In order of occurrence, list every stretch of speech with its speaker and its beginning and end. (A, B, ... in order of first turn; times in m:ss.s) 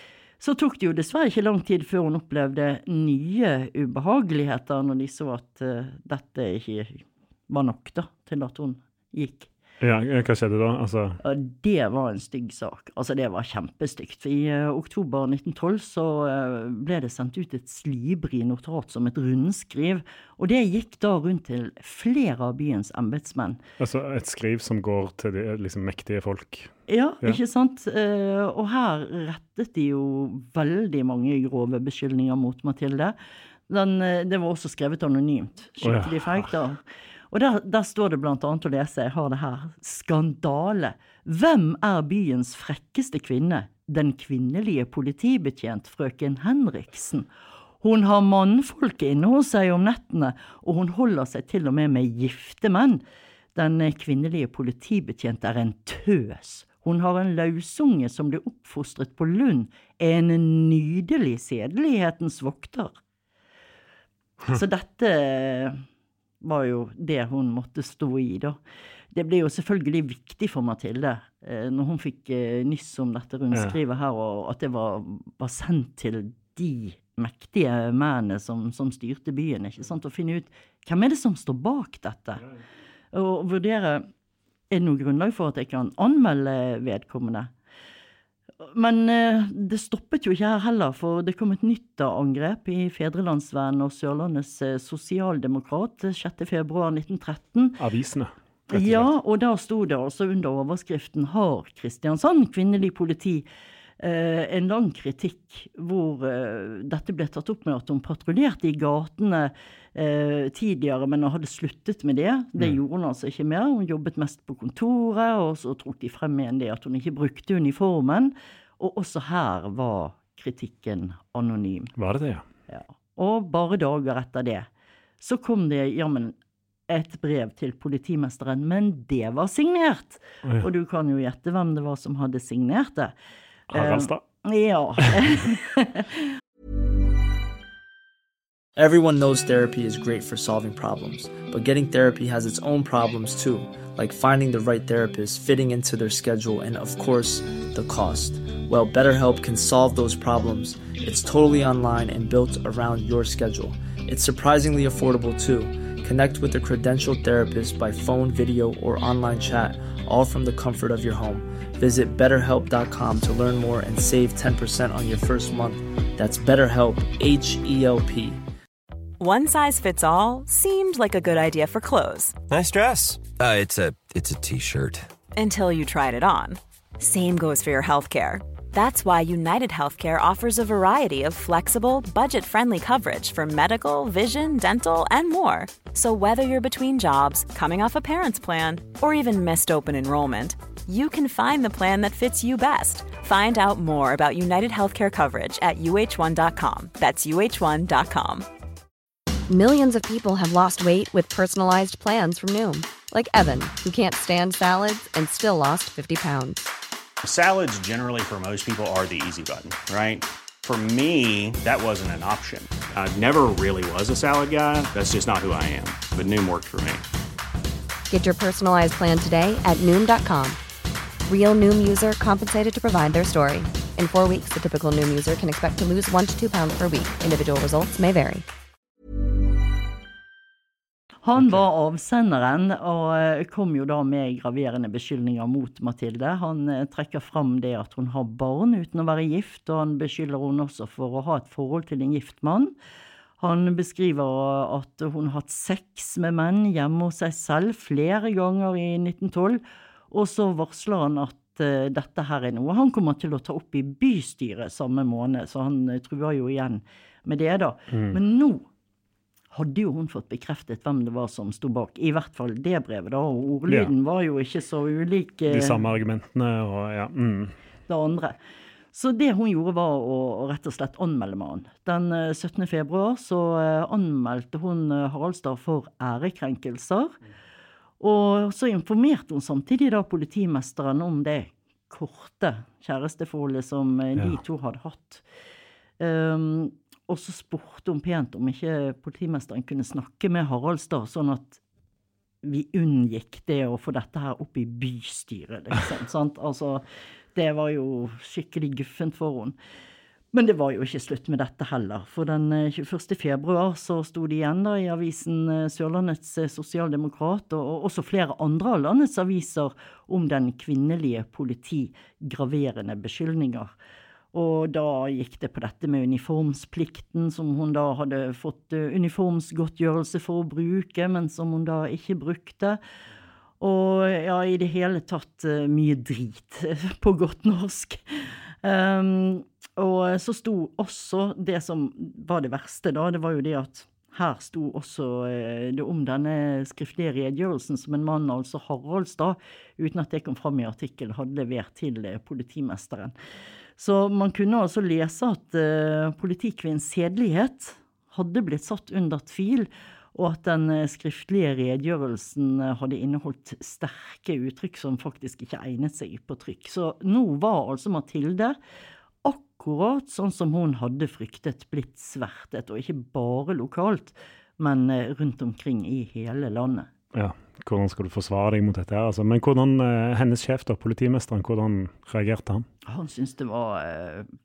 0:00.4-0:09.5 A
0:09.8-0:11.2 B
0:11.2-0:23.6 A
0:23.8-0:27.4 B
0:26.9-0:33.2 A
0:33.7-0:36.8 A
0:35.8-0:36.5 B
0:37.3-0:47.3 A
0:47.8-0:53.0 A
0:53.6-1:02.9 A
1:04.5-1:05.8 A
1:06.4-1:08.6 A
1:09.1-1:22.4 A
1:23.1-1:24.1 A
1:24.7-1:27.5 A
1:28.6-1:37.8 A
1:37.8-1:39.1 B
1:38.7-1:43.4 A
1:44.0-2:01.9 A
2:02.0-2:02.4 B
2:02.7-2:04.7 A
2:05.2-2:06.4 A
2:06.9-2:13.1 A
2:13.7-2:14.2 B
2:13.7-2:16.2 A
2:18.8-2:48.4 C
2:49.2-2:52.4 D
2:52.5-2:55.1 E
2:55.4-3:18.5 D
3:19.5-3:26.7 F
3:27.2-3:37.0 G
3:38.1-3:40.6 F
3:41.3-3:48.4 F
3:51.2-4:02.7 A
4:03.4-4:18.7 A
4:17.9-4:18.2 B
4:19.5-4:25.8 A
4:25.5-4:27.6 B
4:27.9-4:28.4 A
4:28.9-4:37.2 A
4:38.0-4:45.2 A
4:46.0-4:51.6 A
4:52.4-4:56.8 A
4:57.4-4:59.6 A
5:00.3-5:13.7 A
5:14.3-5:22.8 A
5:23.6-5:28.0 A
5:28.6-5:43.1 A
5:43.8-5:58.6 A
5:59.2-6:06.9 A
6:07.1-6:12.7 B
6:12.9-6:14.3 A